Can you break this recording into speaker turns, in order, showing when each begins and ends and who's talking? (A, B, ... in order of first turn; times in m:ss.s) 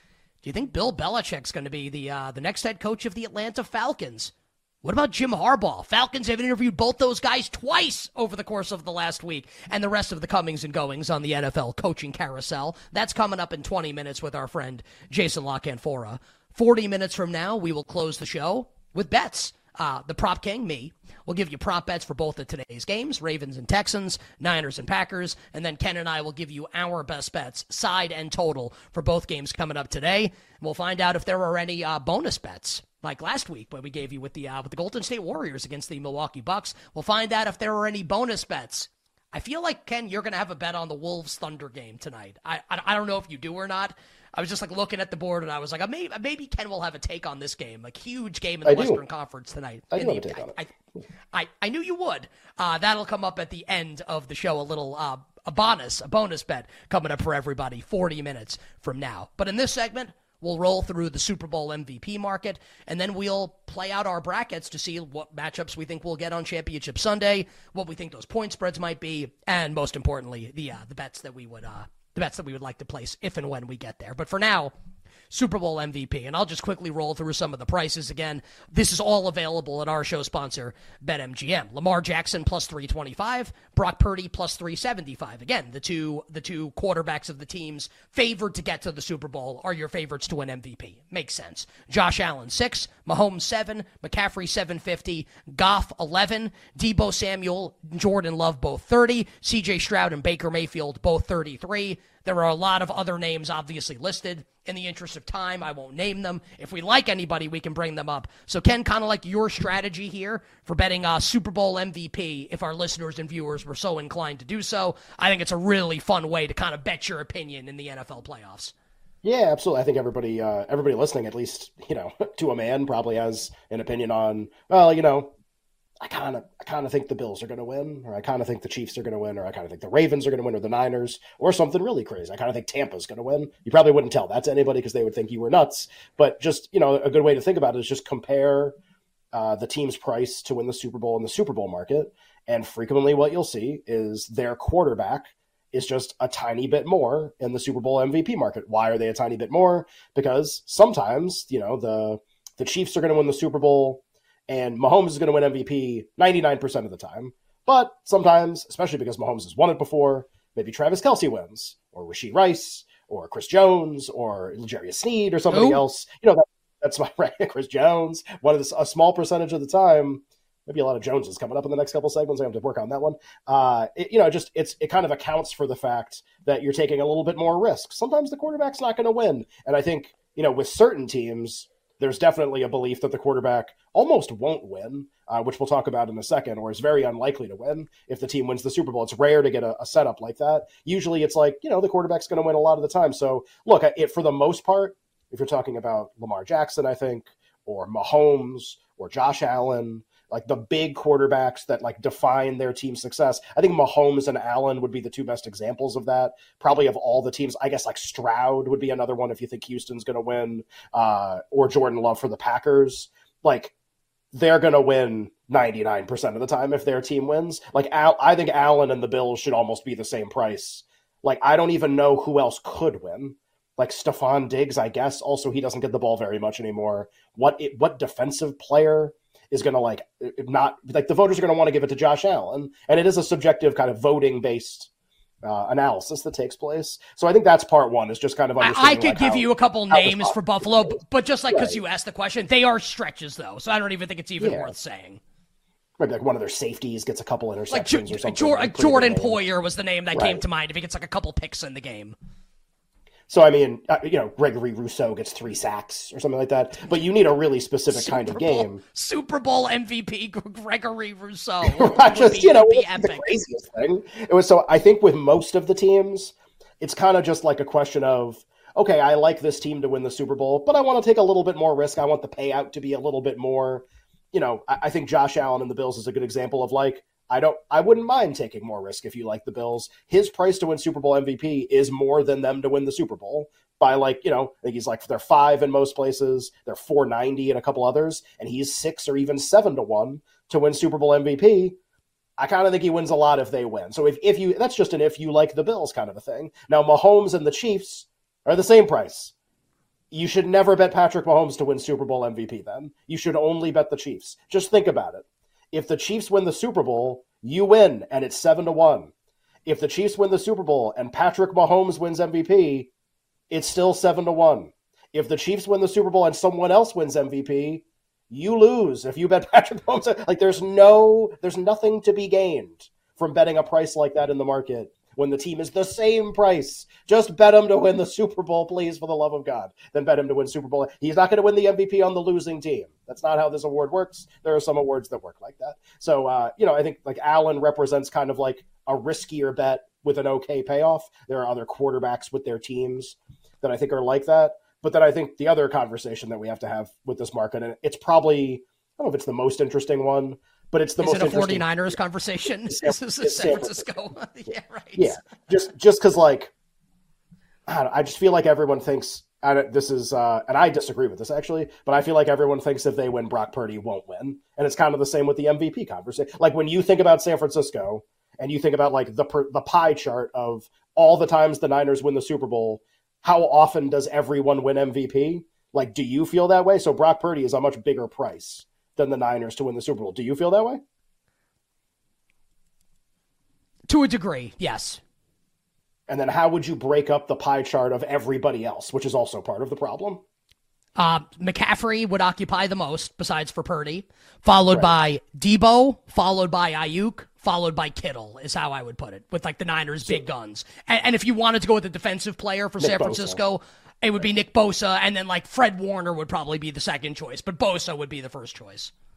0:00.4-0:04.3 A
0:04.8-0:50.7 A
0:48.6-0:49.0 B
0:49.9-0:50.6 B
0:51.3-1:14.7 A
1:15.3-1:58.7 A
1:59.2-2:05.3 B
2:06.0-2:18.8 B
2:19.3-3:33.7 B
2:45.5-2:45.8 A
3:34.3-3:54.9 B
3:55.4-4:01.0 B
3:58.6-4:05.2 A
4:01.5-4:01.8 B
4:04.4-4:04.7 B
4:06.0-4:09.4 B
4:07.7-4:12.2 A
4:10.1-4:10.4 B
4:13.3-4:18.8 B
4:17.9-4:23.4 A
4:21.6-4:51.8 B
4:52.4-4:59.3 B
5:00.1-5:09.1 B
5:09.6-5:12.9 B
5:13.5-5:52.0 B
5:51.0-5:55.2 A
5:52.6-5:54.0 B
5:55.0-5:56.5 B
5:57.7-6:20.8 B
6:23.9-6:25.0 A
6:26.1-6:30.2 B
6:31.0-6:48.9 A
6:34.7-6:35.0 B
6:42.8-6:43.4 B